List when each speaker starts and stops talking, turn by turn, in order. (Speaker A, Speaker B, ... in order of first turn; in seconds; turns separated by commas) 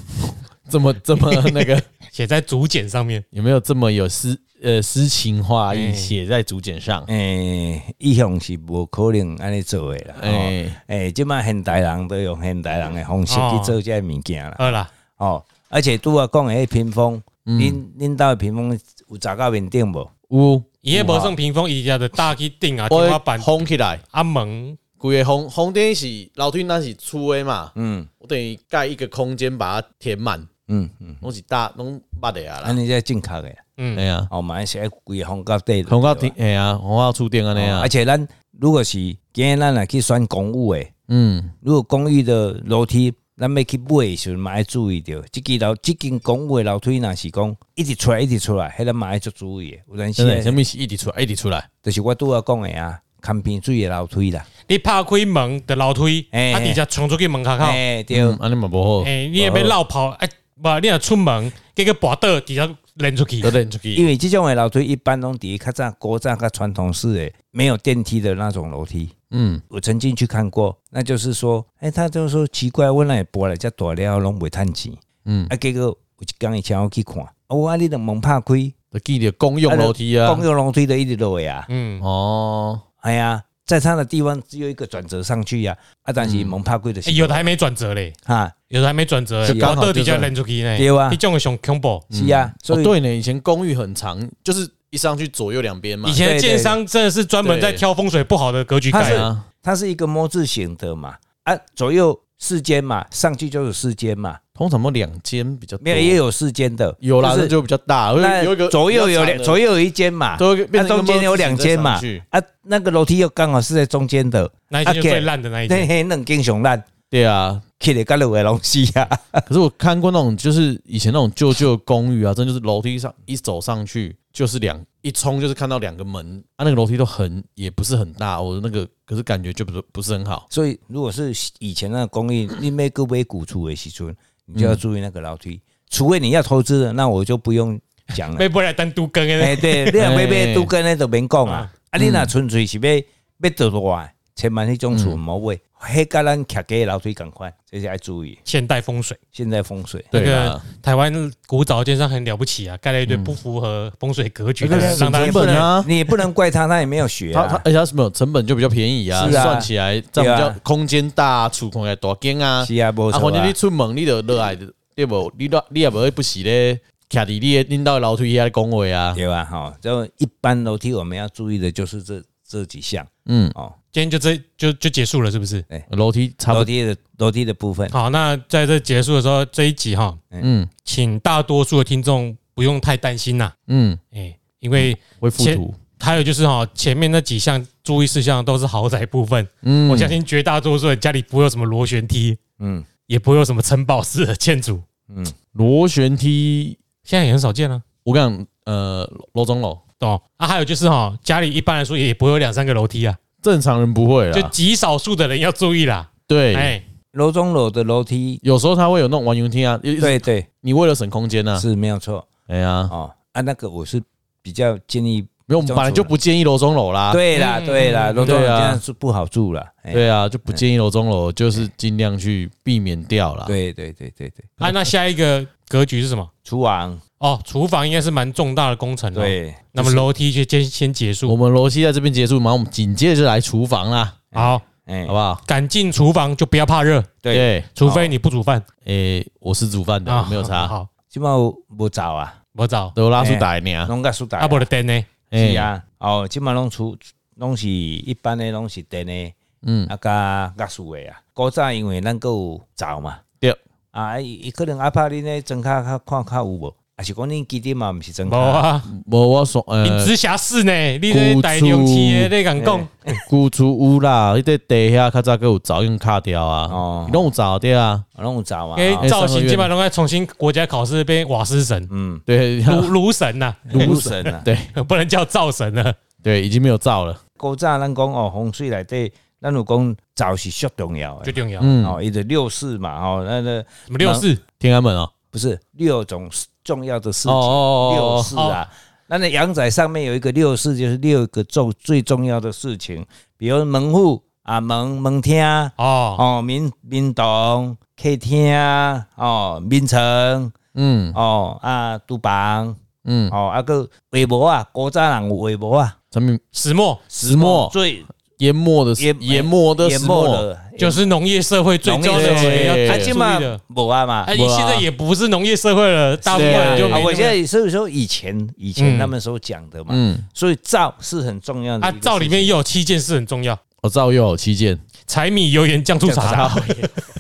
Speaker A: 0.2-1.9, Speaker B: 1.4-3.2, Speaker A: 3.3-7.1, Speaker B: 5.7-6.1, Speaker C: 7.1-20.1, Speaker A: 10.2-10.8, Speaker B: 13.3-13.8, Speaker B: 14.6-14.9, Speaker A: 17.4-17.8, Speaker A: 20.3-20.7, Speaker B: 20.8-23.6, Speaker C: 20.9-21.3, Speaker A: 22.9-24.0, Speaker B: 24.1-24.8, Speaker A: 25.0-30.5, Speaker C: 27.8-28.1, Speaker C: 30.7-31.2, Speaker A: 31.2-32.8, Speaker C: 32.6-33.6, Speaker B: 33.8-34.0, Speaker A: 33.9-34.3, Speaker C: 34.3-36.3, Speaker A: 35.9-37.9, Speaker C: 37.5-40.9, Speaker A: 41.1-41.5, Speaker C: 41.6-50.6, Speaker A: 50.2-51.7, Speaker C: 51.8-54.5, Speaker B: 54.7-57.8, Speaker C: 56.3-56.8, Speaker C: 57.6-58.4, Speaker A: 58.1-59.8, Speaker B: 59.0-63.5, Speaker A: 63.4-64.1, Speaker C: 63.9-69.1, Speaker A: 69.3-69.6, Speaker C: 69.7-78.7, Speaker A: 75.2-75.5, Speaker A: 78.9-80.5, Speaker C: 79.7-81.7, Speaker B: 81.7-82.0, Speaker A: 82.0-82.8, Speaker C: 83.0-87.5, Speaker A: 86.2-86.5, Speaker B: 87.0-88.2, Speaker C: 88.2-88.5, Speaker B: 88.7-92.0, Speaker A: 89.4-90.3, Speaker C: 89.4-89.8, Speaker C: 90.8-91.2, Speaker A: 92.1-96.2, Speaker C: 92.1-92.9, Speaker B: 96.0-99.2, Speaker C: 96.2-96.8, Speaker A: 97.4-97.8, Speaker C: 98.9-104.4, Speaker A: 99.0-99.4, Speaker A: 104.5-106.2, Speaker C: 105.8-107.5, Speaker A: 107.0-109.6, Speaker C: 108.2-116.9, Speaker A: 110.4-112.2, Speaker B: 114.7-115.9, Speaker A: 117.1-117.6, Speaker C: 117.8-119.4, Speaker A: 119.5-130.4, Speaker C: 130.5-138.4, Speaker A: 134.5-134.8, Speaker B: 138.3-139.9, Speaker C: 139.4-148.4, Speaker A: 140.0-140.7, Speaker A: 142.0-142.3, Speaker A: 144.9-145.2, Speaker B: 148.4-149.2, Speaker C: 149.3-150.1, Speaker A: 150.1-150.6, Speaker B: 150.1-155.7, Speaker A: 153.1-153.4, Speaker A: 154.6-155.9, Speaker C: 154.7-157.6, Speaker A: 157.3-169.2, Speaker C: 159.1-160.6, Speaker B: 159.2-159.5, Speaker C: 162.6-163.6, Speaker C: 169.1-173.8, Speaker A: 173.2-173.5, Speaker B: 173.9-175.7, Speaker A: 175.9-176.7, Speaker C: 176.5-177.9, Speaker B: 177.9-180.2, Speaker A: 180.4-180.7, Speaker B: 180.8-183.5, Speaker A: 183.7-184.0, Speaker B: 184.1-192.4, Speaker A: 184.8-185.8, Speaker A: 189.6-190.2, Speaker C: 192.6-192.9, Speaker B: 193.1-194.8, Speaker C: 195.1-195.3, Speaker A: 195.5-196.8, Speaker B: 197.1-197.8, Speaker A: 198.0-199.8, Speaker B: 200.0-203.2, Speaker A: 203.4-204.5, Speaker B: 204.3-206.8, Speaker A: 206.3-206.8, Speaker C: 207.1-208.4, Speaker A: 208.4-211.7, Speaker C: 210.0-210.5, Speaker C: 211.5-212.3, Speaker A: 212.5-212.9, Speaker C: 212.9-216.1, Speaker A: 215.5-217.2, Speaker C: 217.1-220.6, Speaker B: 217.3-218.3, Speaker A: 218.2-218.8, Speaker A: 219.9-223.6, Speaker C: 223.4-224.6, Speaker B: 224.6-226.3, Speaker C: 226.4-227.0, Speaker B: 227.2-231.4, Speaker C: 229.1-230.1, Speaker A: 231.2-234.3, Speaker C: 234.3-235.1, Speaker B: 234.3-234.6, Speaker A: 235.1-235.4, Speaker B: 235.4-237.1, Speaker C: 237.2-238.1, Speaker A: 237.3-237.7, Speaker B: 237.8-238.6, Speaker A: 238.8-240.7, Speaker B: 240.1-240.9, Speaker C: 241.1-242.4, Speaker B: 242.5-242.9, Speaker A: 242.9-243.9, Speaker C: 243.2-244.7, Speaker B: 244.4-245.1, Speaker A: 245.3-245.7, Speaker C: 245.3-249.4, Speaker A: 249.6-249.9, Speaker C: 249.9-253.2, Speaker C: 253.9-258.7, Speaker B: 258.3-258.9, Speaker A: 258.9-260.1, Speaker B: 259.8-263.2, Speaker A: 261.1-262.3, Speaker C: 262.6-262.9, Speaker A: 263.2-268.0, Speaker C: 266.7-267.3, Speaker C: 268.2-269.1, Speaker B: 268.8-271.9, Speaker A: 269.0-269.7, Speaker C: 271.9-272.2, Speaker A: 272.3-272.9, Speaker B: 272.6-276.0, Speaker C: 273.7-274.5, Speaker A: 273.7-274.7, Speaker A: 276.2-277.2, Speaker C: 277.4-284.3, Speaker B: 281.2-281.7, Speaker A: 281.6-282.0, Speaker B: 283.9-284.4, Speaker A: 284.6-285.1, Speaker C: 285.3-300.5, Speaker A: 287.2-288.4, Speaker B: 288.4-288.6, Speaker B: 295.8-296.2, Speaker A: 300.8-301.2, Speaker C: 301.1-302.8, Speaker A: 303.0-303.3, Speaker C: 303.3-305.9, Speaker A: 306.1-306.4, Speaker B: 306.5-307.0, Speaker C: 307.1-308.1, Speaker A: 307.2-307.8, Speaker A: 308.4-310.4, Speaker C: 309.0-311.0, Speaker B: 310.8-313.6, Speaker C: 311.8-314.3, Speaker A: 312.0-313.1, Speaker B: 314.2-317.4, Speaker A: 314.3-314.9, Speaker C: 316.2-322.6, Speaker A: 316.3-317.1, Speaker B: 318.8-319.1, Speaker A: 319.9-320.2, Speaker B: 321.8-323.6, Speaker A: 323.8-324.8, Speaker B: 325.1-326.9, Speaker C: 326.1-326.6, Speaker A: 326.2-326.9